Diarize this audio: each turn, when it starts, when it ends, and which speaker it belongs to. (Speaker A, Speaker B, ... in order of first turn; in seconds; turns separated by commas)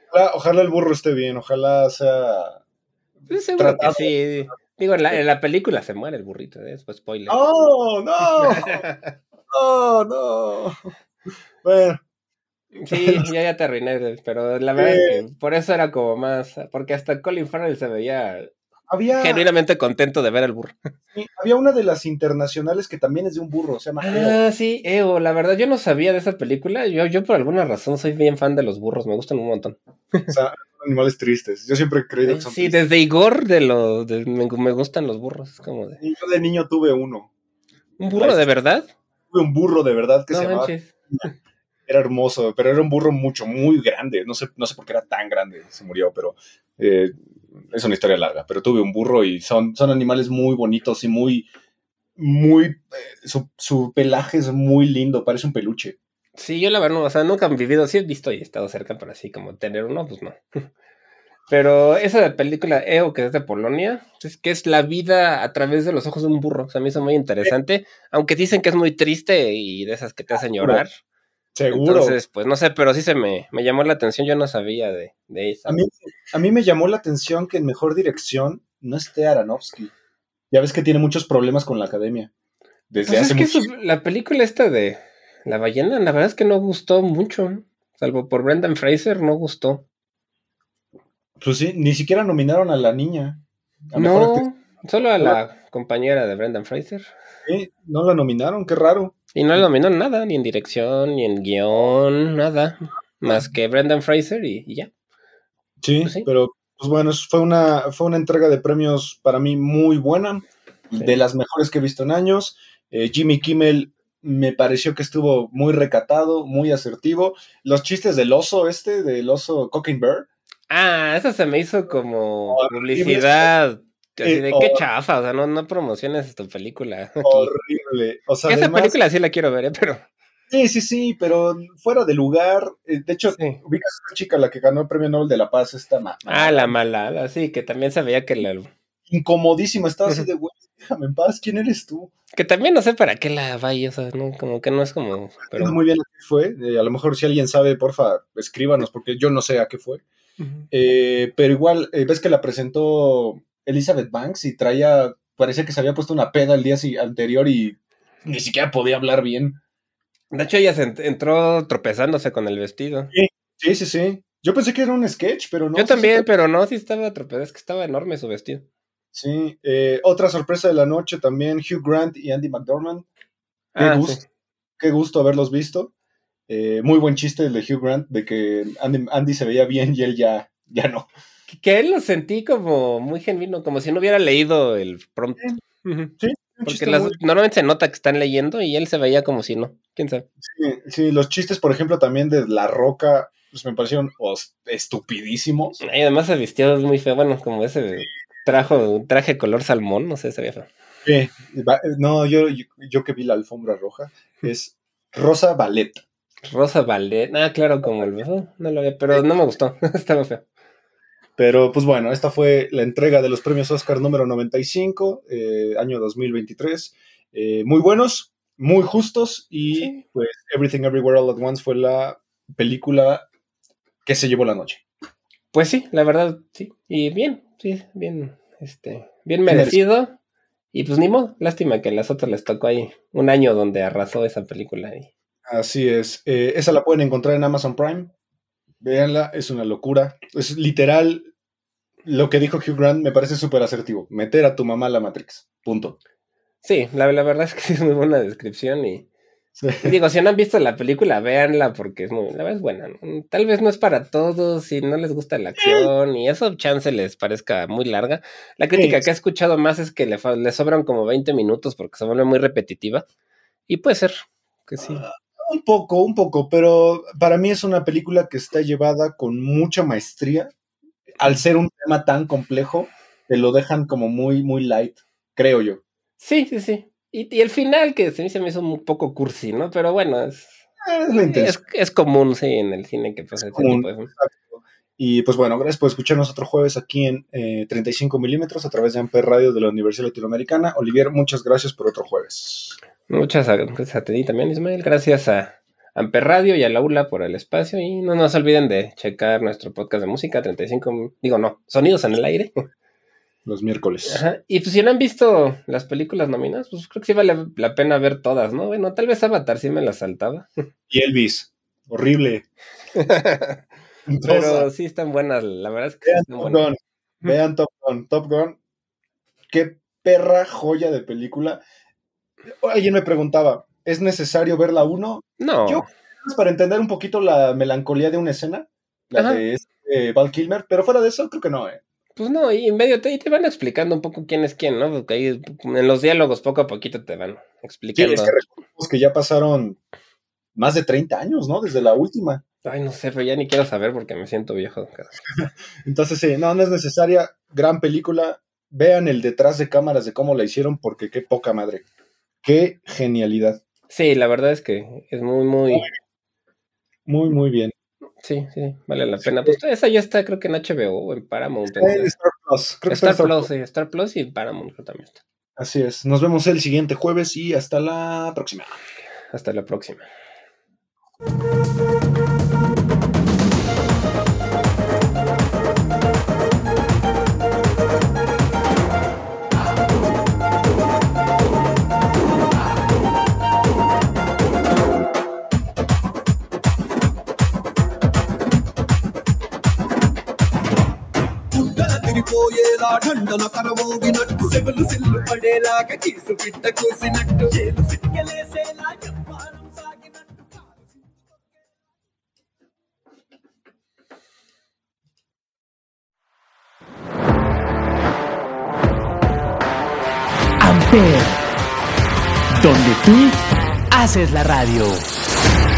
Speaker A: 0.1-2.6, Speaker B: 3.3-7.4, Speaker A: 3.6-4.1, Speaker A: 7.3-8.8, Speaker B: 8.2-9.1, Speaker A: 9.5-10.9, Speaker A: 11.6-12.0, Speaker B: 12.8-18.5, Speaker A: 12.9-13.3, Speaker A: 14.8-15.2, Speaker A: 18.9-19.4, Speaker B: 19.1-20.8, Speaker A: 21.1-24.4, Speaker B: 24.0-30.3, Speaker A: 30.3-32.8, Speaker B: 32.2-36.0, Speaker A: 36.0-37.3, Speaker B: 38.0-38.9, Speaker A: 38.1-38.5, Speaker A: 39.3-41.2, Speaker B: 40.3-41.3, Speaker A: 41.9-51.5, Speaker A: 52.2-56.0, Speaker B: 56.4-60.7, Speaker B: 61.5-70.9, Speaker A: 71.5-72.2, Speaker B: 71.7-75.8, Speaker A: 75.7-79.9, Speaker A: 80.5-82.3, Speaker A: 82.9-83.7, Speaker B: 83.0-89.8, Speaker A: 91.4-94.4, Speaker B: 93.9-97.1, Speaker A: 97.4-99.6, Speaker B: 99.3-104.9, Speaker A: 105.8-120.3, Speaker B: 120.7-127.5, Speaker A: 122.5-123.5, Speaker A: 124.2-124.9, Speaker A: 127.2-128.9, Speaker B: 128.5-130.0, Speaker A: 130.5-136.7, Speaker B: 133.3-133.6, Speaker B: 136.3-138.7, Speaker A: 139.1-142.1, Speaker B: 142.3-145.8, Speaker A: 145.5-150.0, Speaker A: 150.7-159.6, Speaker B: 160.3-163.1, Speaker A: 163.1-166.2, Speaker B: 165.7-168.6, Speaker A: 169.1-173.1, Speaker B: 173.7-174.2, Speaker A: 173.8-174.2, Speaker A: 174.8-175.9, Speaker A: 176.5-181.1, Speaker B: 181.5-186.1, Speaker A: 186.2-187.2, Speaker B: 186.7-190.2, Speaker A: 190.4-195.8, Speaker B: 195.8-200.7, Speaker A: 201.0-206.0, Speaker B: 206.4-210.4, Speaker A: 211.4-223.3, Speaker B: 219.7-220.0, Speaker A: 224.0-224.8, Speaker B: 225.5-230.2, Speaker A: 229.5-229.8, Speaker B: 230.7-235.1, Speaker A: 235.5-238.1, Speaker A: 238.8-241.3, Speaker A: 242.0-246.0, Speaker B: 246.6-249.1, Speaker A: 249.6-249.9, Speaker B: 249.8-263.0, Speaker A: 255.6-255.9, Speaker A: 258.7-259.0, Speaker B: 263.7-265.0, Speaker A: 264.8-270.5, Speaker A: 271.2-275.8, Speaker B: 276.2-280.6, Speaker A: 280.8-281.6, Speaker B: 281.1-284.1, Speaker A: 283.4-292.8, Speaker B: 293.1-302.6, Speaker A: 303.4-304.2, Speaker B: 304.0-310.6, Speaker A: 310.9-312.4, Speaker B: 312.9-313.6, Speaker A: 314.1-314.7, Speaker B: 314.2-316.7, Speaker A: 316.0-318.6, Speaker A: 319.5-321.6, Speaker A: 322.6-331.8, Speaker B: 325.4-325.9, Speaker B: 329.1-329.4, Speaker B: 332.1-338.4, Speaker A: 338.0-339.8, Speaker A: 340.5-342.4, Speaker B: 342.6-345.1, Speaker A: 345.4-351.8, Speaker A: 352.4-353.6, Speaker B: 353.9-355.9, Speaker A: 357.1-357.7, Speaker B: 358.2-362.1, Speaker A: 359.2-359.6, Speaker A: 361.7-363.5, Speaker B: 362.9-365.2, Speaker A: 365.6-368.8, Speaker B: 369.3-370.1, Speaker C: 391.5-400.6, Speaker D: 410.6-411.4, Speaker D: 412.6-413.4, Speaker D: 413.9-415.0